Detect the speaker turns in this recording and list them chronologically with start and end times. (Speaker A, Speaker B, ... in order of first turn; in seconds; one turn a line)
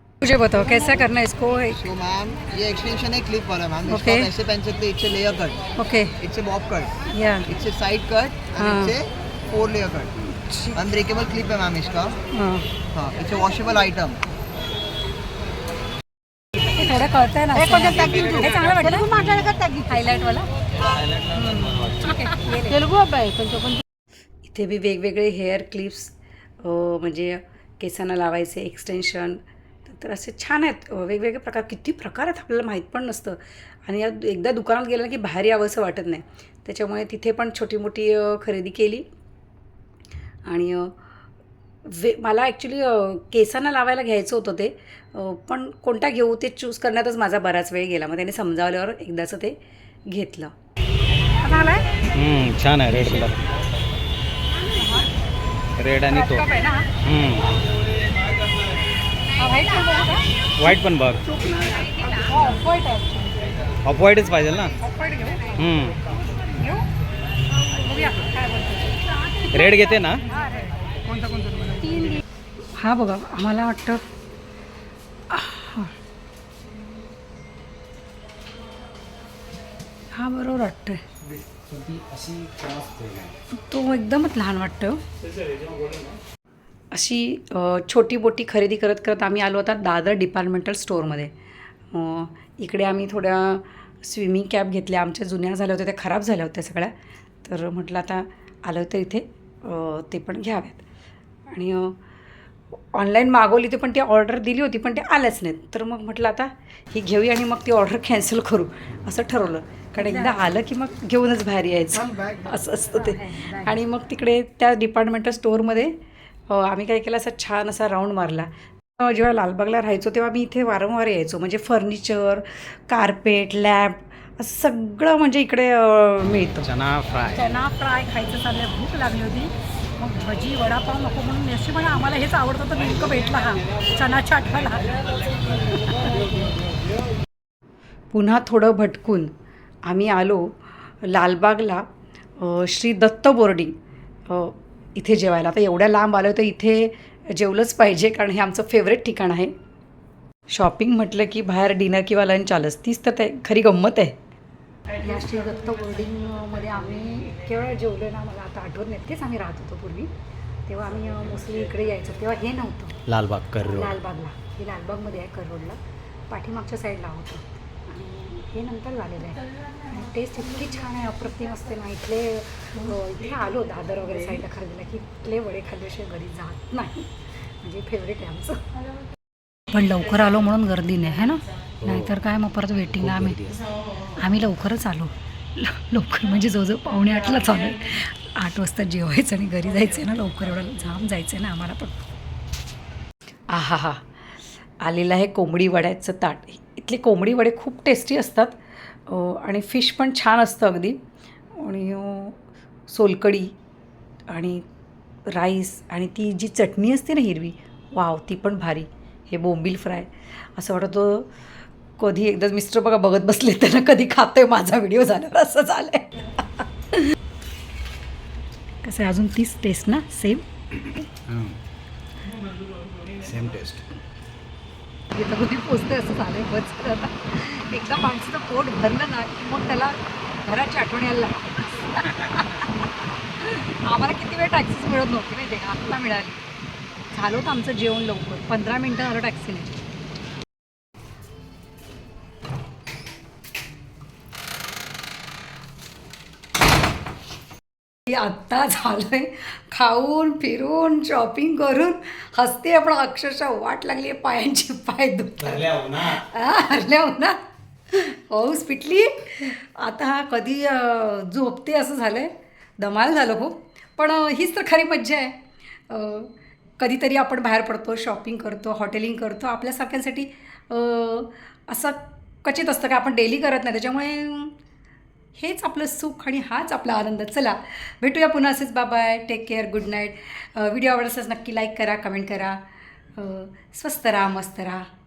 Speaker A: 0.2-1.9
Speaker B: 1.8-5.6
Speaker A: 3.9-4.3
Speaker A: 5.8-6.2
Speaker B: 6.2-6.9
Speaker A: 7.1-7.5
Speaker B: 7.5-10.1
Speaker A: 8.6-9.0
Speaker A: 10.3-10.8
Speaker B: 10.7-12.2
Speaker A: 12.3-12.7
Speaker B: 12.9-14.2
Speaker A: 16.6-19.3
Speaker C: 17.6-19.9
Speaker A: 19.8-20.5
Speaker D: 20.8-22.2
Speaker A: 21.3-22.8
Speaker C: 22.5-23.8
Speaker A: 24.4-39.1
Speaker A: 40.4-40.9
Speaker A: 41.8-50.5
Speaker A: 51.4-51.9
Speaker D: 52.1-53.5
Speaker A: 54.6-55.1
Speaker D: 55.8-56.5
Speaker A: 56.1-56.9
Speaker D: 57.0-57.5
Speaker A: 59.3-60.2
Speaker C: 59.5-60.0
Speaker D: 60.6-61.2
Speaker A: 61.2-63.5
Speaker C: 62.1-62.6
Speaker D: 63.8-64.8
Speaker A: 64.8-65.6
Speaker D: 65.5-66.0
Speaker A: 66.3-66.9
Speaker A: 67.6-69.4
Speaker D: 69.5-70.2
Speaker A: 70.3-70.7
Speaker C: 71.2-71.8
Speaker A: 71.7-72.2
Speaker A: 72.7-74.1
Speaker A: 75.3-75.9
Speaker A: 80.1-81.0
Speaker D: 81.7-83.3
Speaker A: 83.5-85.0
Speaker A: 86.9-91.3
Speaker A: 91.9-96.9
Speaker A: 97.4-100.8
Speaker A: 101.5-102.0
Speaker A: 102.7-116.0
Speaker C: 112.1-112.5
Speaker C: 113.0-113.7
Speaker A: 116.5-126.7
Speaker D: 126.6-127.5
Speaker A: 127.2-136.4
Speaker A: 138.1-139.3
Speaker A: 139.8-141.8
Speaker A: 142.4-149.5
Speaker A: 150.5-154.2
Speaker A: 154.9-160.1
Speaker A: 160.7-163.0
Speaker D: 163.1-163.9
Speaker A: 163.6-165.8
Speaker A: 166.3-177.1
Speaker A: 177.6-178.6
Speaker A: 179.7-191.9
Speaker D: 183.0-183.6
Speaker A: 193.5-194.1
Speaker A: 194.8-201.0
Speaker A: 201.5-203.5
Speaker A: 204.3-204.6
Speaker A: 205.3-211.3
Speaker A: 212.0-217.1
Speaker A: 218.8-221.0
Speaker D: 221.3-221.5
Speaker D: 223.2-223.8
Speaker A: 225.1-232.7
Speaker A: 233.4-236.4
Speaker A: 237.1-239.8
Speaker A: 248.1-257.4
Speaker D: 255.4-256.2
Speaker A: 257.9-274.6
Speaker A: 275.3-282.6
Speaker A: 283.1-284.9